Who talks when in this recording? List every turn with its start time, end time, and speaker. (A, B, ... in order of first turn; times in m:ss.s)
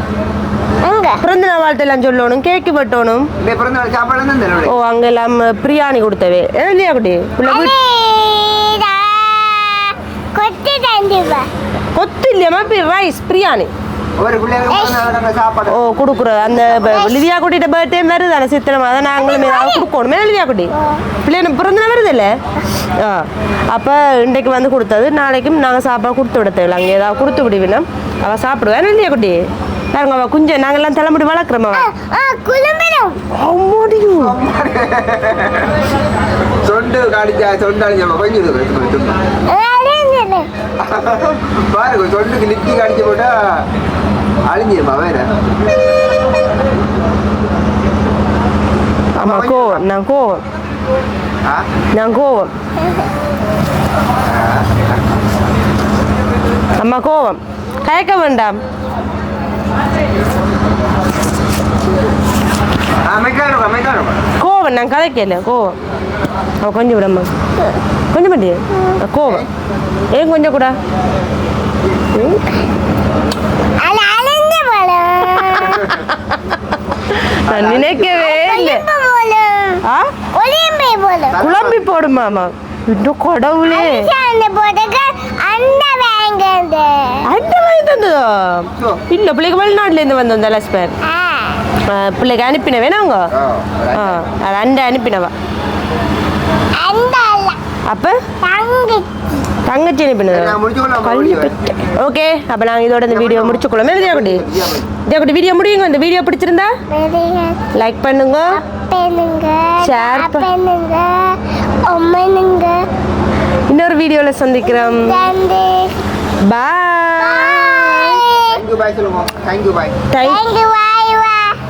0:00.8-0:01.2 A
0:01.2-0:03.3 B
0:03.4-0:04.7 C
0:04.7-0:07.7 B
0:07.4-0:11.5 A
0:12.0-0:13.7 B
0:14.2-0:16.8 C
0:14.7-0:15.1 A
0:15.7-0:20.7 B
0:16.7-0:17.2 A
0:19.2-0:19.8 A
0:20.8-0:21.0 A
0:21.2-0:22.3 B
0:23.0-0:29.4 B
0:29.9-0:31.9 B
0:31.8-0:33.2 A
0:33.3-0:34.4 B
0:34.2-0:35.9 C
0:36.6-0:39.2 C
0:39.5-0:40.5 A
0:40.8-0:43.7 C
0:44.5-0:45.3 C
0:49.2-0:50.4 B
0:49.2-0:49.8 C
0:52.0-0:52.5 B
0:54.2-0:55.0 C
0:56.8-0:58.6 B
1:03.0-1:04.2 C
1:04.4-1:05.8 B
1:06.6-1:07.3 B
1:08.1-1:09.5 B
1:10.2-1:10.8 B
1:13.8-1:16.0 A
1:15.4-1:16.6 B
1:17.1-1:18.8 B
1:17.5-1:18.2 C
1:18.1-1:19.8 A
1:19.8-1:20.1 B
1:20.4-1:21.5 A
1:21.3-1:21.9 C
1:21.4-1:24.1 B
1:23.7-1:27.2 A
1:27.2-1:30.9 B
1:28.7-1:29.0 C
1:31.0-1:31.6 A
1:31.8-1:33.3 B
1:33.3-1:34.3 C
1:33.9-1:35.3 B
1:36.8-1:37.6 A
1:37.9-1:38.2 B
1:38.4-1:39.1 A
1:39.7-1:44.4 B
1:40.3-1:41.9 C
1:43.1-1:44.9 C
1:45.0-1:46.8 B
1:46.9-1:47.7 A
1:47.8-1:48.6 B
1:48.5-1:52.8 A
1:49.8-1:50.5 B
1:53.7-1:55.3 B
1:54.6-1:56.0 A
1:56.4-1:58.2 B
1:57.2-1:58.6 A
1:58.5-2:00.0 C
2:00.1-2:00.4 B
2:00.2-2:01.6 A